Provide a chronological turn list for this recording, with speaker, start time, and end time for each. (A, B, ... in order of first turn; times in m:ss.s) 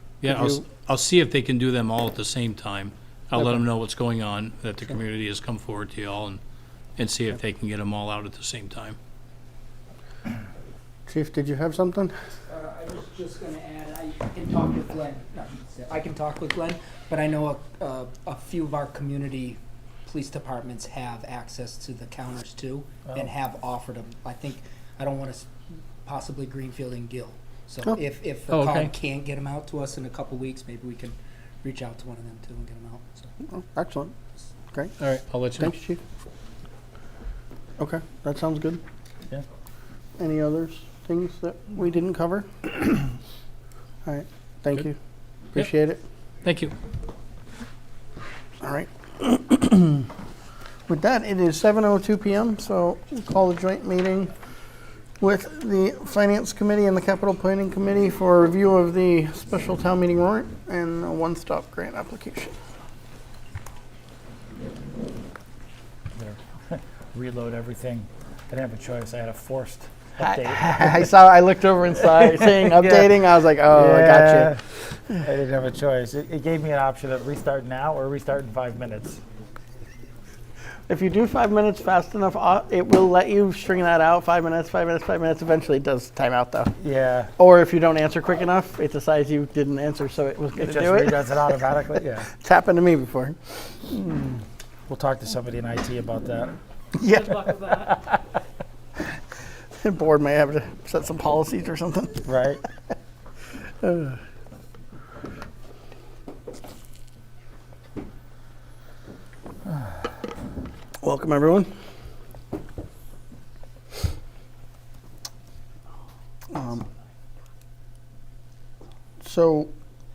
0:00.2-0:06.4 A
0:00.2-0:00.6 B
0:07.0-0:09.0 A
0:11.1-0:12.1 B
0:12.5-0:25.5 C
0:26.0-0:33.3 C
0:28.5-0:28.9 A
0:33.5-0:34.1 B
0:35.0-0:35.7 A
0:35.6-0:36.0 B
0:37.8-0:38.8 B
0:40.2-0:43.1 B
0:44.0-0:45.0 B
0:45.5-0:46.0 B
0:46.4-0:46.7 A
0:48.6-0:50.1 B
0:50.9-0:54.3 B
0:55.2-1:02.5 B
1:06.1-1:11.1 D
1:10.2-1:14.6 B
1:12.2-1:19.2 D
1:20.9-1:26.7 B
1:26.8-1:27.3 D
1:27.4-1:34.4 B
1:30.6-1:32.3 D
1:34.9-1:36.6 D
1:37.0-1:38.2 B
1:39.8-1:42.3 B
1:42.2-1:42.6 D
1:43.8-1:44.2 B
1:51.0-1:51.7 B
1:56.5-1:56.8 B
1:59.2-1:59.7 B